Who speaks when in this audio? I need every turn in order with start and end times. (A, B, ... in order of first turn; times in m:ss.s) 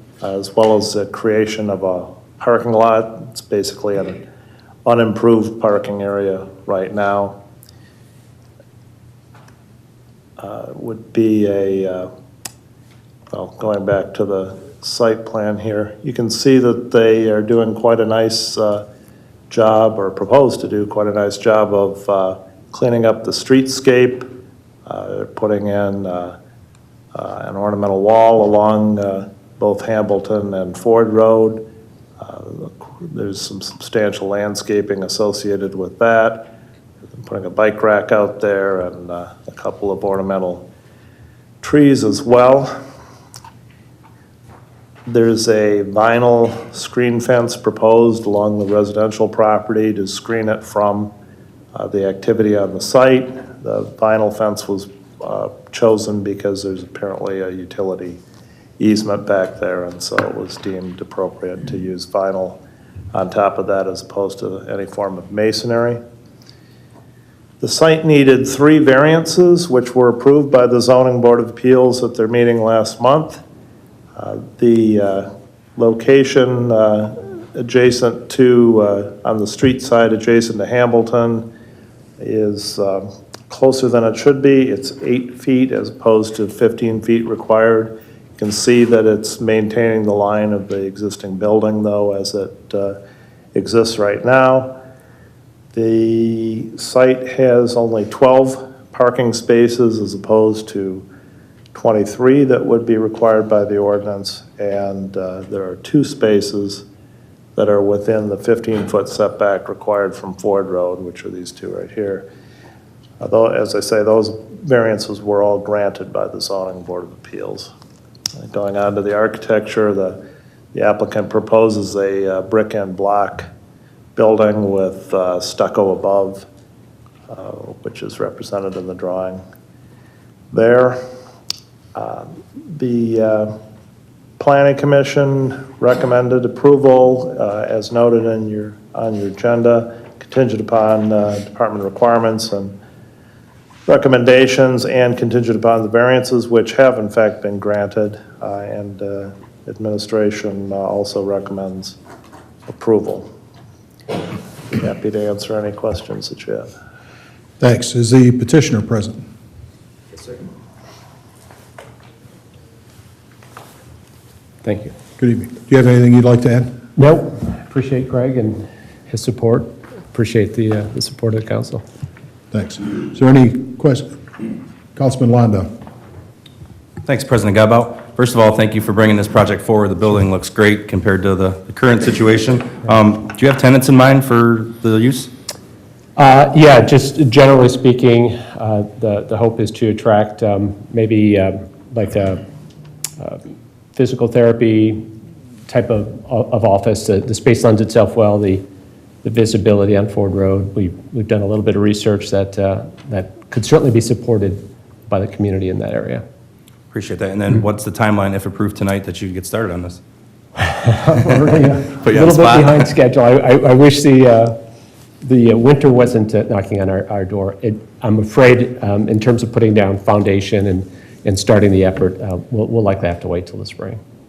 0:00.2-0:04.2 A
0:04.8-0:07.4 A
0:10.4-0:12.1 A
0:13.3-0:18.8 A
0:19.5-0:24.3 A
0:24.8-0:26.4 A
0:27.1-0:31.7 A
0:32.2-0:36.5 A
0:37.2-0:40.7 A
0:41.6-0:42.7 A
0:45.0-0:51.1 A
0:51.7-0:58.2 A
0:58.8-1:02.6 A
1:03.1-1:06.0 A
1:07.6-1:13.4 A
1:14.2-1:21.5 A
1:22.2-1:33.0 A
1:33.5-1:34.8 A
1:35.7-1:41.1 A
1:41.7-1:46.8 A
1:47.6-1:52.3 A
1:53.2-1:57.7 A
1:58.4-2:00.2 A
2:00.7-2:03.5 A
2:04.2-2:06.4 A
2:07.3-2:09.4 A
2:10.5-2:11.0 A
2:11.9-2:13.6 A
2:14.4-2:22.8 A
2:23.9-2:32.0 A
2:32.7-2:33.3 A
2:34.7-2:36.7 A
2:37.6-2:39.2 B
2:44.6-2:44.9 C
2:45.2-2:46.8 B
2:47.0-2:51.8 C
2:52.5-2:54.2 B
2:54.9-2:55.7 B
2:57.0-3:05.3 D
3:06.2-3:12.4 C
3:13.9-3:15.0 C
3:15.7-3:18.6 C
3:19.2-3:26.2 C
3:26.9-3:30.0 D
3:30.6-3:34.6 C
3:32.0-3:32.8 D
3:35.2-3:44.0 C